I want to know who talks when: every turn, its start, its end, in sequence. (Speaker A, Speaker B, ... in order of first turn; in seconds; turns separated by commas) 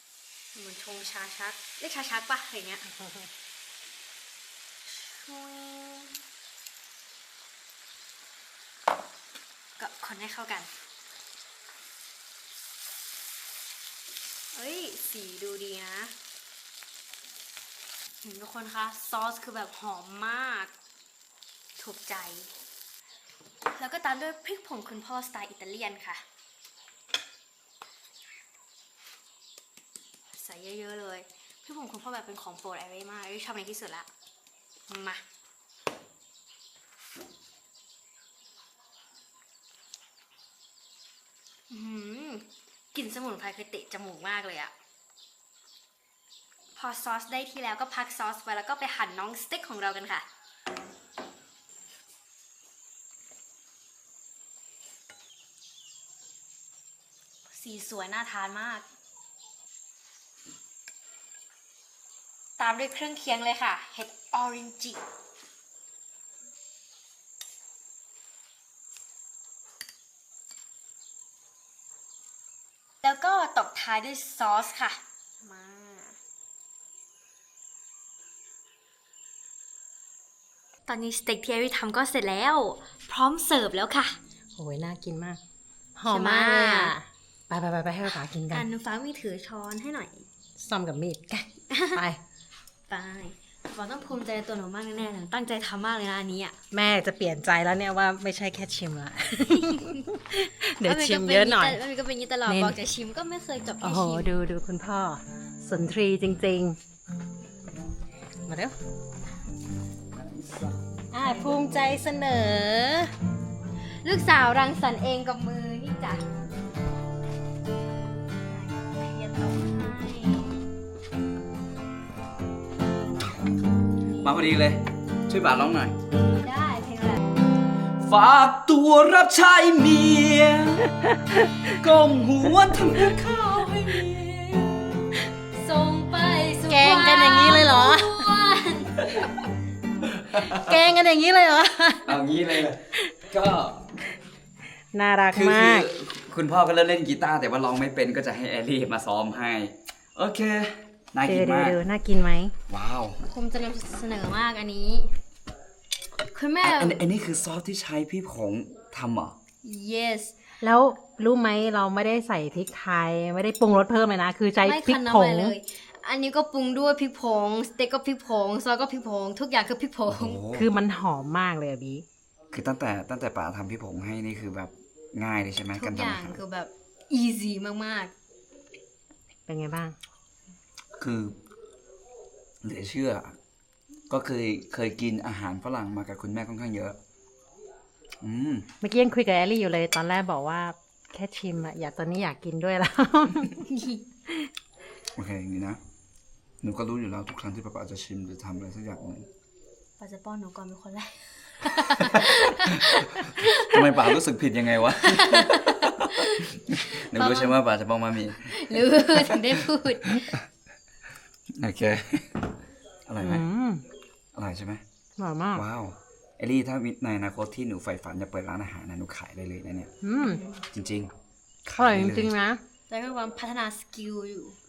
Speaker A: 0.5-3.0, Speaker A: 4.8-6.2, Speaker A: 9.8-10.7, Speaker A: 14.5-16.1, Speaker A: 18.2-20.7, Speaker A: 21.8-22.5, Speaker A: 23.8-26.2, Speaker A: 30.3-34.1, Speaker A: 34.9-35.2, Speaker A: 41.7-44.7, Speaker A: 46.7-50.2, Speaker A: 57.5-58.9, Speaker A: 62.6-65.0, Speaker A: 73.0-76.2, Speaker A: 80.9-84.2, Speaker B: 84.5-85.4, Speaker B: 86.0-88.7, Speaker A: 86.0-86.9, Speaker A: 88.0-90.2, Speaker B: 90.6-92.2, Speaker A: 91.7-92.0, Speaker A: 92.9-96.5, Speaker B: 96.7-101.8, Speaker A: 99.6-100.0, Speaker A: 100.8-104.3, Speaker B: 102.5-102.8, Speaker B: 103.8-106.8, Speaker B: 108.5-108.8, Speaker C: 110.1-110.8, Speaker B: 111.1-113.1, Speaker A: 114.0-116.2, Speaker A: 118.4-120.6, Speaker C: 124.2-125.9, Speaker A: 126.3-127.2, Speaker C: 128.0-130.9, Speaker C: 131.6-133.2, Speaker A: 133.0-139.1, Speaker B: 136.7-138.3, Speaker C: 140.0-140.8, Speaker B: 140.3-142.2, Speaker C: 142.0-143.8, Speaker B: 144.9-145.9, Speaker C: 145.3-151.8, Speaker B: 151.2-152.5, Speaker C: 152.7-153.2, Speaker A: 153.3-155.1, Speaker A: 156.3-157.0, Speaker C: 156.6-159.3, Speaker A: 159.6-160.3, Speaker B: 160.6-165.5, Speaker A: 164.6-170.4, Speaker C: 170.1-170.7, Speaker B: 170.5-172.0, Speaker C: 172.5-176.4, Speaker A: 175.7-178.1, Speaker B: 179.5-179.9, Speaker C: 181.0-181.4, Speaker C: 182.6-183.3, Speaker C: 184.1-187.0, Speaker C: 188.2-188.7, Speaker B: 188.8-193.6, Speaker A: 193.6-194.0, Speaker C: 195.2-195.8, Speaker C: 196.6-199.3, Speaker A: 200.0-203.8, Speaker C: 202.2-210.4, Speaker A: 205.0-207.6, Speaker A: 208.3-210.3, Speaker C: 211.6-212.5, Speaker C: 213.1-213.4, Speaker B: 213.2-213.8, Speaker C: 214.3-214.8, Speaker B: 215.2-215.6, Speaker C: 215.5-219.9, Speaker B: 220.0-220.4, Speaker A: 220.2-220.6, Speaker C: 220.7-221.1, Speaker C: 221.7-222.3, Speaker B: 221.8-222.6, Speaker A: 222.9-224.6